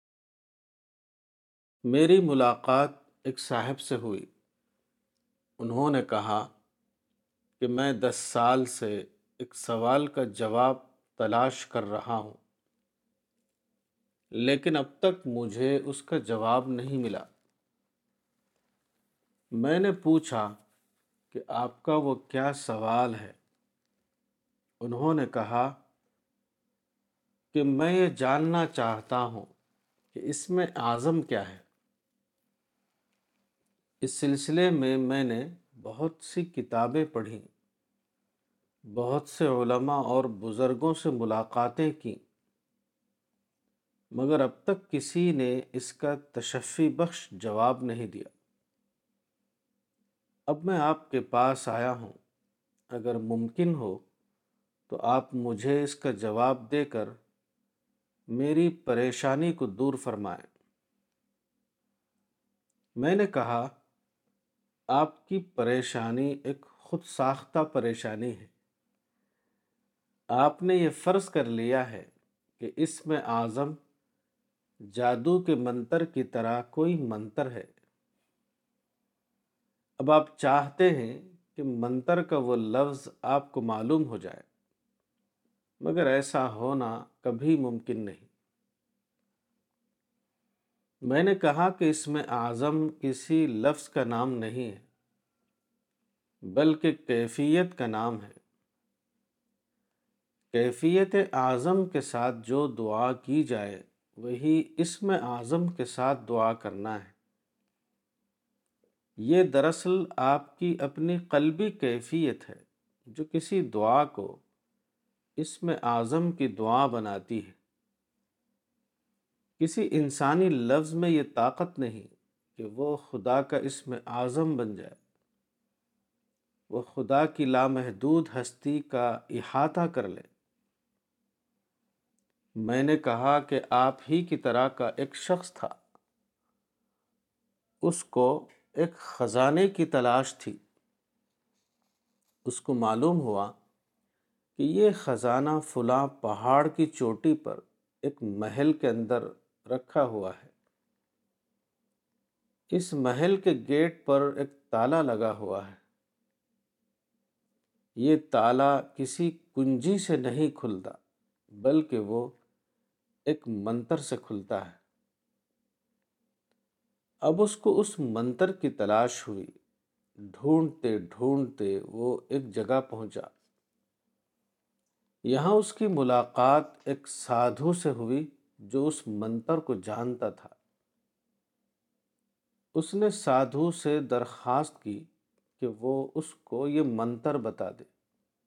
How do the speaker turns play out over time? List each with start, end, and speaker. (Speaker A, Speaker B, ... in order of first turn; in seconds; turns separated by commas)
Speaker A: 1.9-4.3, Speaker A: 5.6-6.5, Speaker A: 7.6-12.4, Speaker A: 14.3-17.3, Speaker A: 19.6-20.5, Speaker A: 21.3-23.4, Speaker A: 24.8-25.7, Speaker A: 27.5-29.5, Speaker A: 30.1-31.6, Speaker A: 34.0-37.5, Speaker A: 38.9-42.2, Speaker A: 44.1-48.3, Speaker A: 50.5-52.2, Speaker A: 52.9-54.0, Speaker A: 54.9-57.1, Speaker A: 58.3-60.5, Speaker A: 63.0-63.7, Speaker A: 64.9-68.5, Speaker A: 70.3-73.8, Speaker A: 74.9-77.7, Speaker A: 80.0-84.5, Speaker A: 85.8-88.3, Speaker A: 91.0-94.9, Speaker A: 96.5-98.4, Speaker A: 100.5-107.1, Speaker A: 109.2-114.4, Speaker A: 115.4-117.6, Speaker A: 119.6-125.0, Speaker A: 126.7-130.3, Speaker A: 132.6-135.7, Speaker A: 137.8-140.6, Speaker A: 142.4-143.5, Speaker A: 144.6-150.5, Speaker A: 152.7-155.8, Speaker A: 157.9-161.0, Speaker A: 161.6-162.3, Speaker A: 163.3-164.8, Speaker A: 167.2-169.5, Speaker A: 170.3-173.3, Speaker A: 175.3-180.6, Speaker A: 182.7-185.1, Speaker A: 185.6-187.9